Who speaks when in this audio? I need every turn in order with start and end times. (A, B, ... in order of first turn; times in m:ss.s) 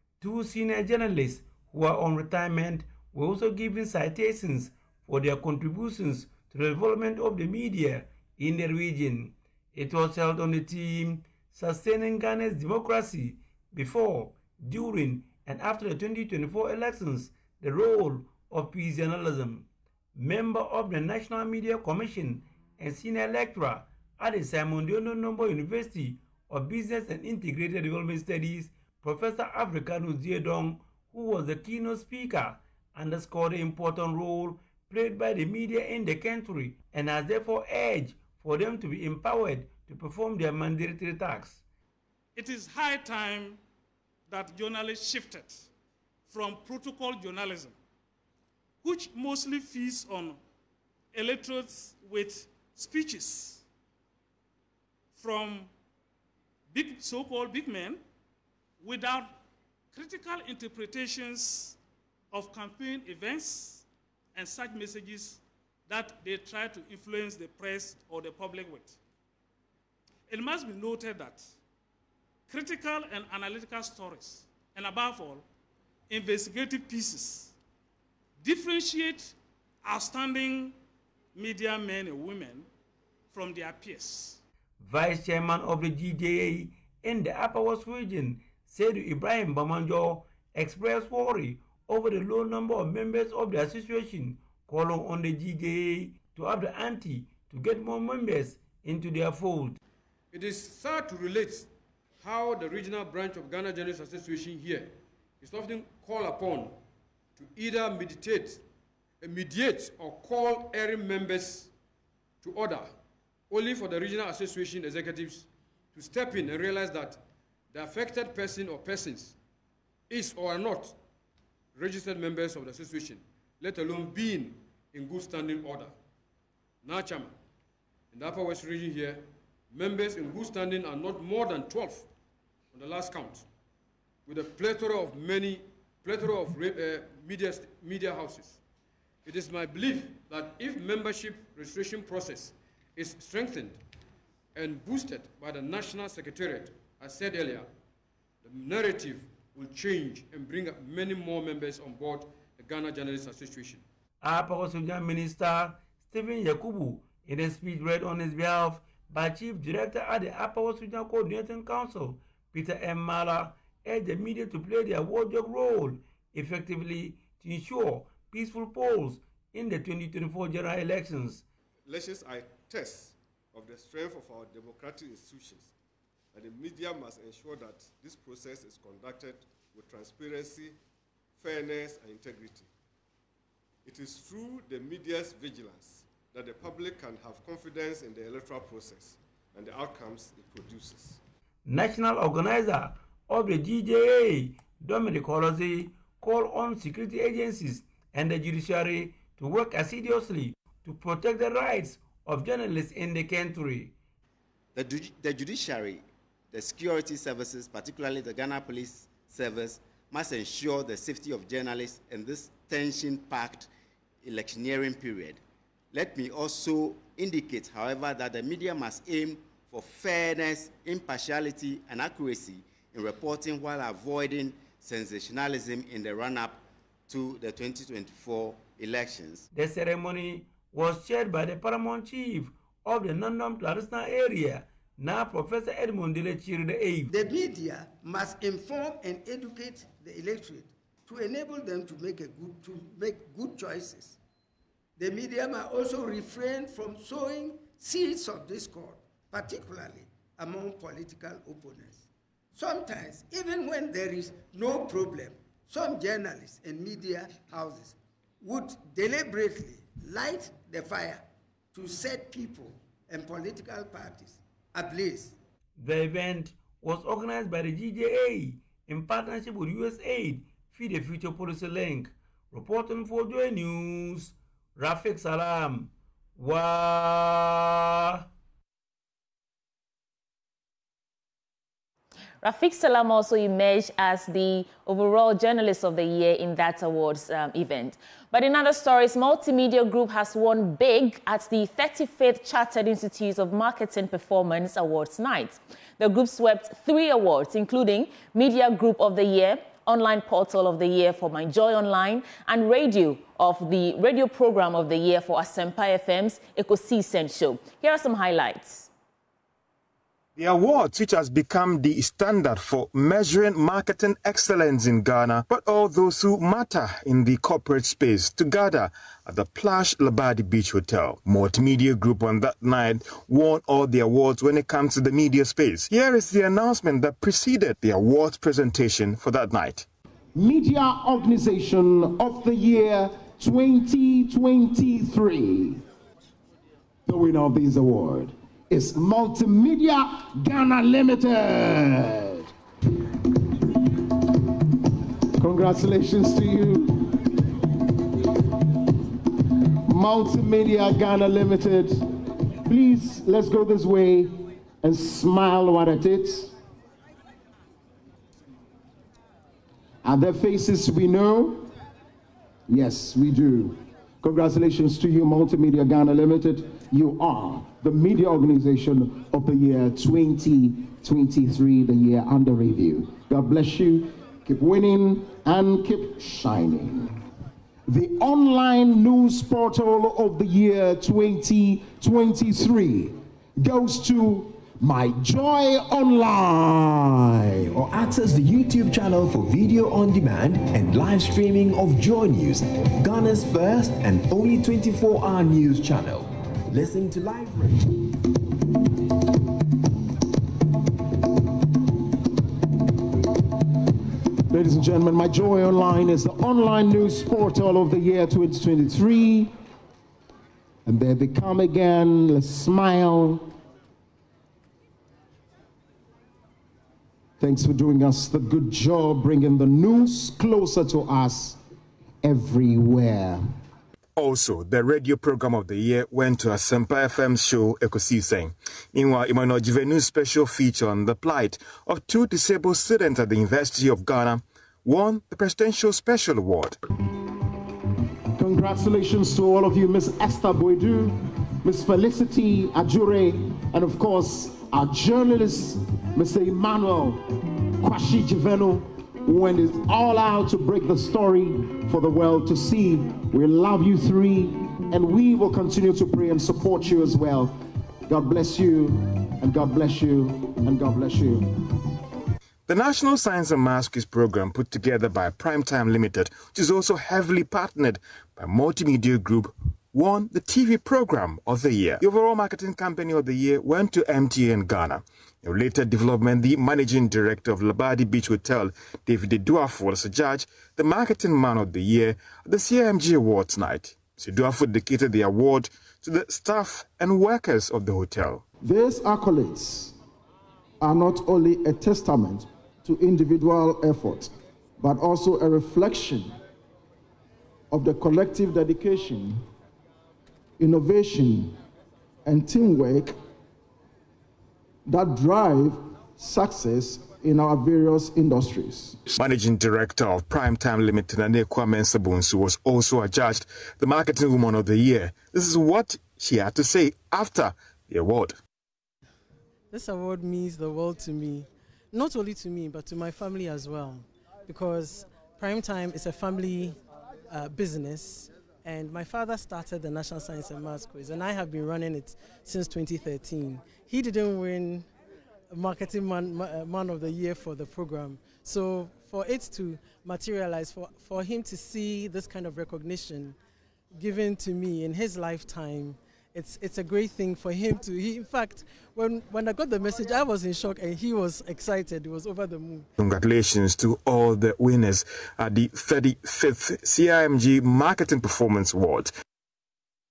0:00.2-0:41.6 A
0:42.3-0:43.6 B
0:44.3-0:45.7 B
0:46.3-0:47.8 B
0:48.8-0:50.4 B
0:51.1-0:53.6 B
0:55.1-0:55.7 B
0:56.7-0:58.0 B
0:58.8-0:59.4 B
0:59.9-1:01.8 B
1:02.3-1:09.0 B
1:10.3-1:11.5 B
1:12.5-1:15.4 B
1:16.1-1:17.6 B
1:18.4-1:20.8 B
1:21.3-1:22.7 B
1:23.3-1:24.4 B
1:24.8-1:39.8 A
1:40.3-1:46.8 C
1:47.4-1:48.6 C
1:49.2-1:51.7 C
1:52.4-1:52.9 C
1:53.5-1:59.4 C
2:00.1-2:01.0 C
2:01.7-2:05.9 C
2:06.8-2:07.3 C
2:08.1-2:12.1 C
2:12.7-2:13.5 C
2:14.2-2:18.6 C
2:19.2-2:23.8 C
2:24.5-2:27.7 C
2:28.4-2:33.8 C
2:34.2-2:51.4 A
2:51.8-2:55.7 D
2:56.3-3:00.8 D
3:01.4-3:02.7 D
3:03.8-3:11.2 D
3:11.6-3:23.9 A
3:24.7-3:33.7 E
3:34.2-3:35.4 E
3:35.9-3:49.5 E
3:49.5-3:57.1 A
3:57.1-4:04.2 F
4:05.0-4:25.4 F
4:25.8-4:38.2 A
4:42.4-5:08.9 G
5:10.4-5:29.9 H
5:30.3-5:35.8 I
5:37.0-5:42.5 I
5:45.4-5:47.2 I
5:49.8-5:52.1 I
5:52.6-5:56.5 I
6:00.0-6:01.7 I
6:02.7-6:17.2 I
6:17.9-6:27.5 I
6:27.7-6:37.9 J
6:44.5-6:49.5 I
6:50.8-6:53.5 I
6:57.4-7:01.6 I
7:02.2-7:03.5 I
7:04.2-7:16.8 H
7:18.4-7:27.2 I
7:27.8-7:41.5 I
7:42.7-8:08.4 H
8:08.6-8:10.0 I
8:10.8-8:16.3 I
8:17.7-8:19.4 I
8:20.6-8:21.6 I
8:22.2-8:23.2 I
8:24.8-8:29.0 I
8:29.1-8:38.4 H
8:39.7-8:46.8 K
8:47.3-8:54.9 K
8:55.5-9:03.4 K
9:03.9-9:12.9 K
9:13.0-9:19.1 H